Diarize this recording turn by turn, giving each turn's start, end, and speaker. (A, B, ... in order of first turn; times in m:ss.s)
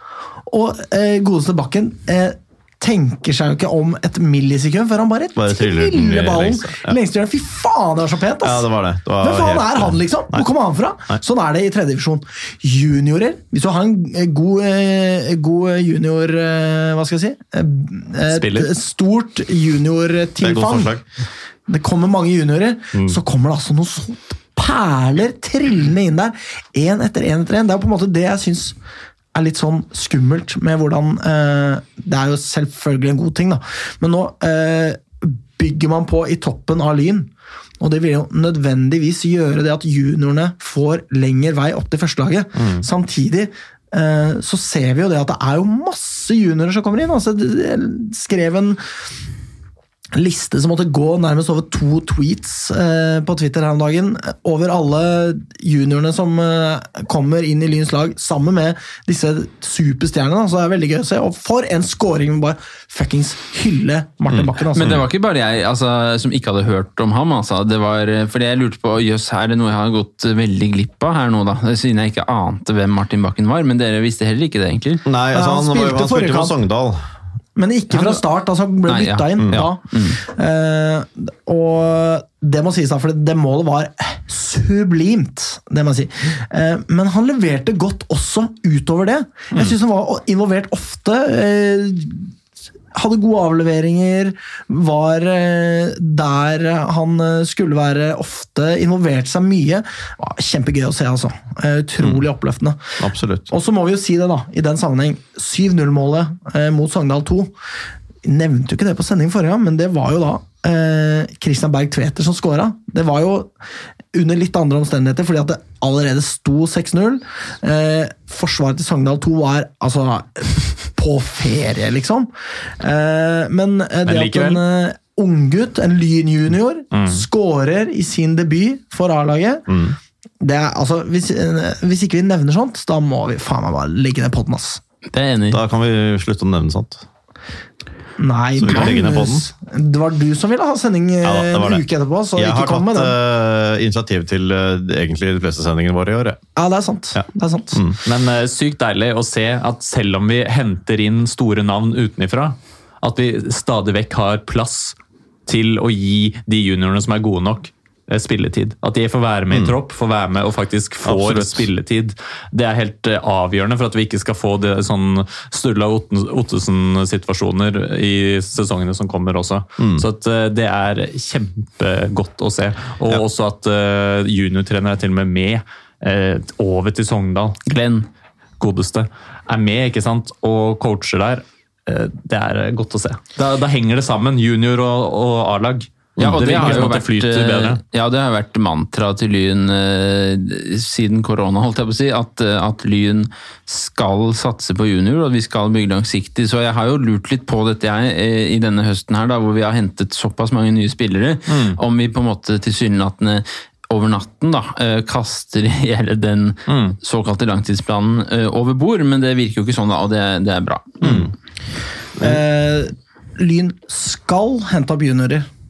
0:00.5-0:08.7 A
0:05.4-0:07.0 B
0:08.4-0:10.5 B
0:09.2-0:20.9 A
0:18.3-0:18.7 C
0:20.4-0:21.0 B
0:21.7-0:28.7 A
0:29.3-0:48.8 A
0:50.1-1:05.0 A
1:04.3-1:05.0 B
1:04.7-1:15.0 D
1:15.0-1:17.0 B
1:15.3-1:16.6 A
1:17.6-1:32.3 A
1:17.9-1:18.2 D
1:18.8-1:20.2 D
1:32.9-1:42.8 A
1:43.0-1:43.5 B
1:43.5-1:47.5 A
1:48.2-1:53.5 A
1:54.1-2:09.6 A
2:04.0-2:04.6 C
2:06.9-2:07.2 C
2:09.7-2:09.9 B
2:10.4-2:14.8 A
2:15.1-2:15.6 D
2:15.5-2:17.0 B
2:18.2-2:23.1 A
2:18.6-2:19.5 B
2:21.2-2:26.4 B
2:26.6-2:27.8 A
2:27.1-2:28.0 B
2:28.0-2:57.6 C
2:39.5-2:39.8 B
2:41.0-2:41.7 B
2:49.8-2:50.0 B
2:57.7-2:58.1 D
2:58.6-3:07.8 C
3:06.2-3:06.8 B
3:06.2-3:31.2 D
3:21.5-3:21.8 C
3:26.7-3:27.0 C
3:31.0-3:31.3 B
3:32.2-3:35.5 A